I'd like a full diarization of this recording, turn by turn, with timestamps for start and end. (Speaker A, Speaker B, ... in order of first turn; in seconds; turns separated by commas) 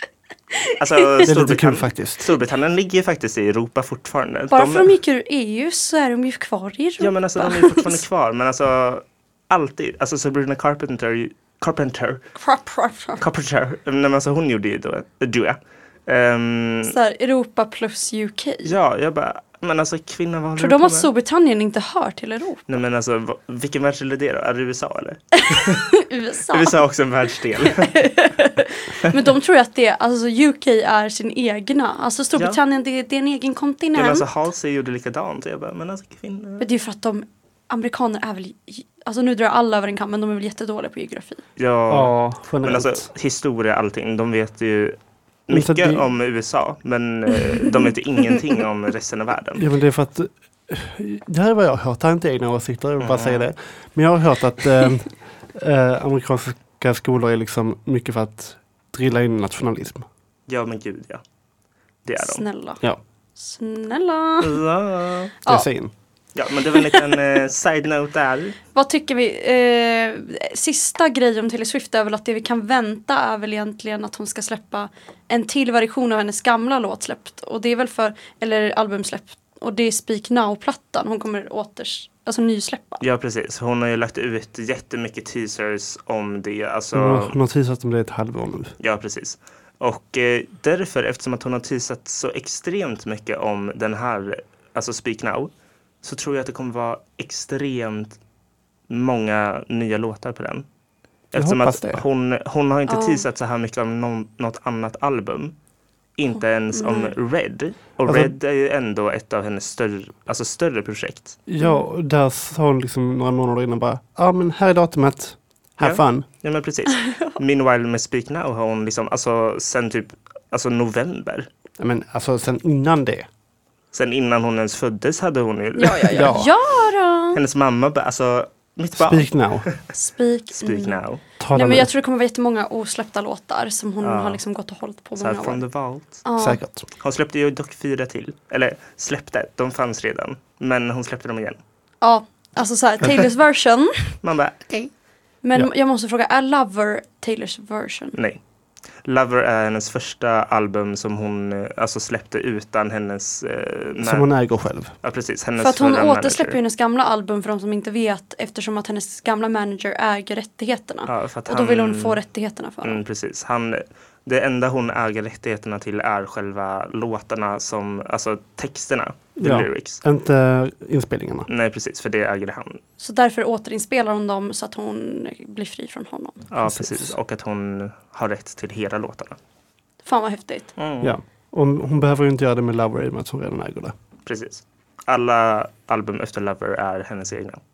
Speaker A: 0.8-4.9, Speaker B: 1.2-2.3, Speaker C: 4.5-8.0, Speaker A: 7.0-12.2, Speaker C: 12.3-13.2, Speaker A: 13.2-16.9, Speaker C: 16.9-18.7, Speaker A: 18.6-21.1, Speaker C: 20.6-22.6, Speaker A: 22.7-25.9, Speaker C: 25.4-26.8, Speaker A: 26.5-28.0, Speaker C: 27.6-34.2, Speaker A: 33.9-36.6, Speaker C: 36.6-41.4, Speaker A: 41.6-49.6, Speaker B: 41.9-43.1, Speaker B: 45.5-46.0, Speaker B: 49.6-60.0, Speaker A: 53.0-53.4, Speaker A: 60.5-61.2, Speaker A: 62.0-62.4, Speaker C: 62.2-62.8, Speaker C: 63.4-64.6, Speaker A: 64.4-65.3, Speaker B: 65.5-65.9, Speaker A: 66.3-68.5, Speaker C: 68.7-83.0, Speaker A: 83.0-87.3, Speaker B: 86.9-88.7, Speaker A: 88.8-95.5, Speaker A: 96.0-98.2, Speaker A: 98.9-100.7, Speaker A: 101.3-105.5, Speaker B: 101.3-102.0, Speaker C: 102.9-103.2, Speaker A: 106.2-111.4, Speaker C: 106.7-107.1, Speaker B: 111.5-116.2, Speaker A: 115.8-121.5, Speaker C: 117.0-117.3, Speaker B: 121.8-123.3, Speaker A: 123.9-126.4, Speaker C: 125.8-127.4, Speaker B: 126.1-126.5, Speaker A: 127.3-129.8, Speaker B: 128.9-129.7, Speaker C: 130.0-131.0, Speaker A: 130.6-131.2, Speaker B: 131.4-131.9, Speaker C: 131.5-135.6, Speaker A: 134.0-134.4, Speaker A: 135.2-136.2, Speaker C: 136.2-136.6, Speaker B: 136.4-136.9, Speaker A: 137.0-141.6, Speaker C: 142.0-144.2, Speaker A: 144.2-144.9, Speaker C: 145.4-148.2, Speaker A: 148.1-148.4, Speaker A: 149.0-154.3, Speaker B: 154.0-154.9, Speaker A: 155.0-156.6, Speaker C: 155.6-163.0, Speaker A: 161.1-162.2, Speaker A: 162.8-170.0, Speaker B: 169.4-171.5, Speaker A: 171.5-172.8, Speaker C: 173.0-176.4, Speaker A: 176.5-179.4, Speaker B: 176.6-177.1, Speaker C: 180.0-180.7, Speaker A: 180.8-181.1, Speaker B: 181.0-183.9, Speaker A: 184.2-187.6